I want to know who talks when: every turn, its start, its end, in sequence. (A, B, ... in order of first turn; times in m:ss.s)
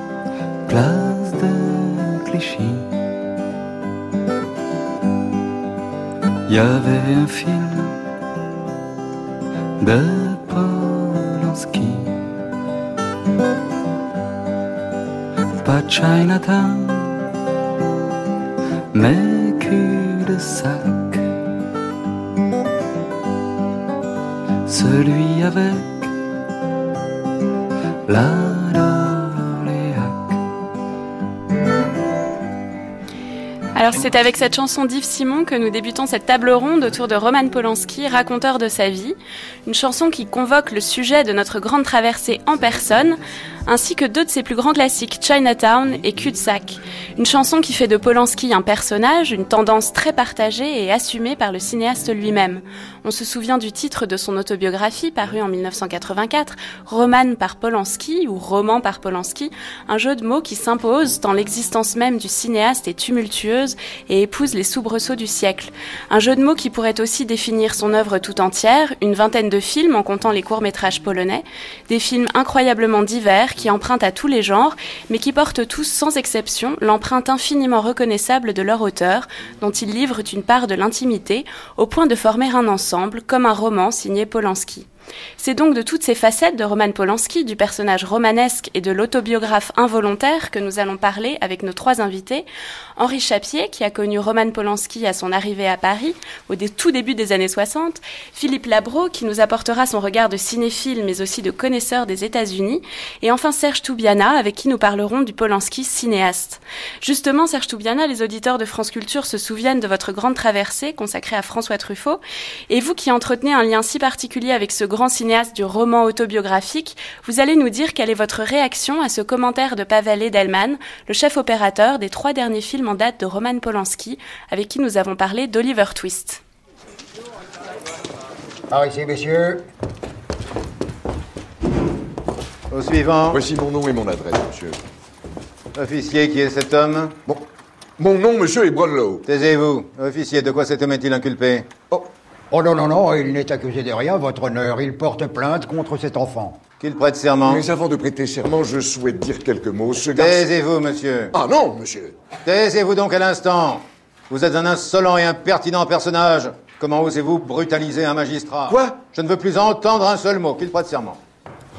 0:00.7-0:02.9 A
0:06.5-0:08.0 A
0:09.8-0:12.2 A
0:15.6-0:17.3 A
0:18.9-0:21.3 A
0:24.6-0:26.1 A
0:28.0-0:30.4 A
0:33.7-1:24.9 B
1:25.4-1:32.4 B
1:33.0-2:06.4 B
2:08.7-2:09.6 C
2:12.7-2:13.4 D
2:13.3-2:14.8 E
2:15.8-2:17.2 D
2:18.0-2:19.2 E
2:19.2-2:21.7 D
2:22.5-2:26.6 C
2:26.8-2:27.6 D
2:27.4-2:30.5 E
2:30.1-2:31.3 D
2:31.3-2:32.2 E
2:32.4-2:41.2 D
2:38.7-2:39.0 E